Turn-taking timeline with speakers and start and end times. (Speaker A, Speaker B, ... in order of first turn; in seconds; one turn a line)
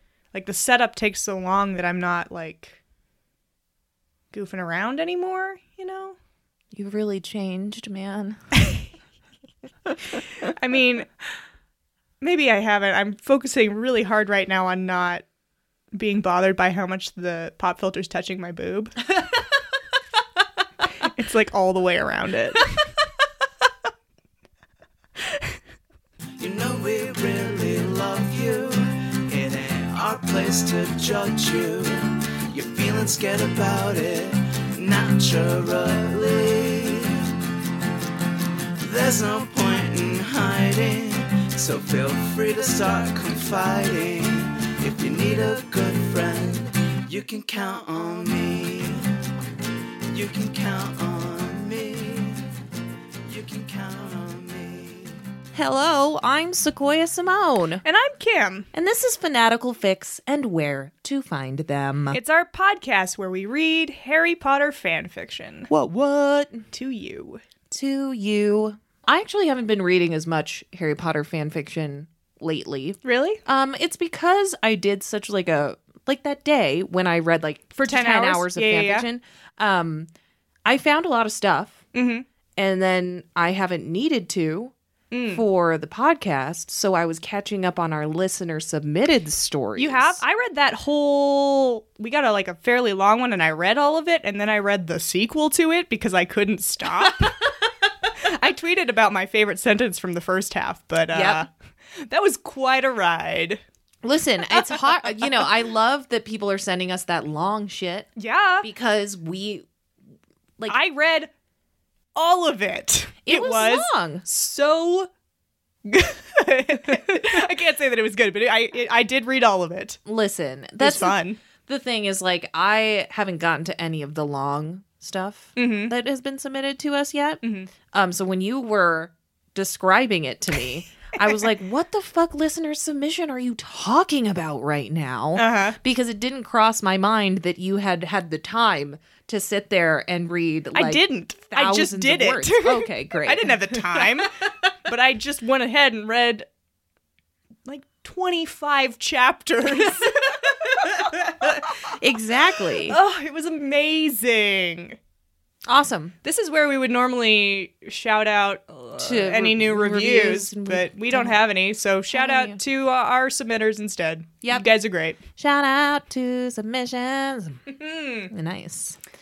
Speaker A: 0.3-2.8
Speaker A: 4.3-6.2
Speaker B: 6.7-8.6
Speaker A: 10.4-11.1
Speaker A: 12.2-15.2
Speaker A: 15.9-19.1
Speaker A: 21.0-22.7
Speaker C: 26.4-37.3
Speaker C: 38.8-49.1
Speaker C: 50.1-52.5
Speaker C: 53.3-55.1
Speaker B: 55.5-57.8
Speaker A: 57.8-58.7
Speaker B: 58.7-62.2
Speaker A: 62.1-65.7
Speaker B: 65.7-66.7
Speaker A: 66.7-67.4
Speaker B: 67.7-80.1
Speaker A: 73.0-73.4
Speaker A: 77.7-79.1
Speaker B: 80.7-81.8
Speaker A: 81.9-82.3
Speaker B: 82.6-84.7
Speaker A: 85.1-85.4
Speaker B: 85.3-90.2
Speaker A: 89.8-97.5
Speaker A: 98.0-103.6
Speaker B: 101.1-101.5
Speaker B: 104.0-108.1
Speaker A: 104.5-105.5
Speaker A: 108.2-108.7
Speaker B: 108.6-109.7
Speaker A: 110.7-111.3
Speaker A: 112.2-115.1
Speaker B: 113.3-114.2
Speaker A: 115.9-120.0
Speaker B: 120.0-144.3
Speaker A: 120.8-121.4
Speaker A: 125.6-125.9
Speaker A: 127.4-127.7
Speaker A: 135.3-135.8
Speaker A: 140.8-146.5
Speaker A: 147.7-151.9
Speaker B: 151.4-153.0
Speaker A: 152.8-155.0
Speaker B: 155.7-156.2
Speaker A: 156.2-165.2
Speaker B: 159.0-161.4
Speaker B: 162.1-162.6
Speaker B: 165.4-167.7
Speaker A: 167.7-168.3
Speaker B: 168.3-169.0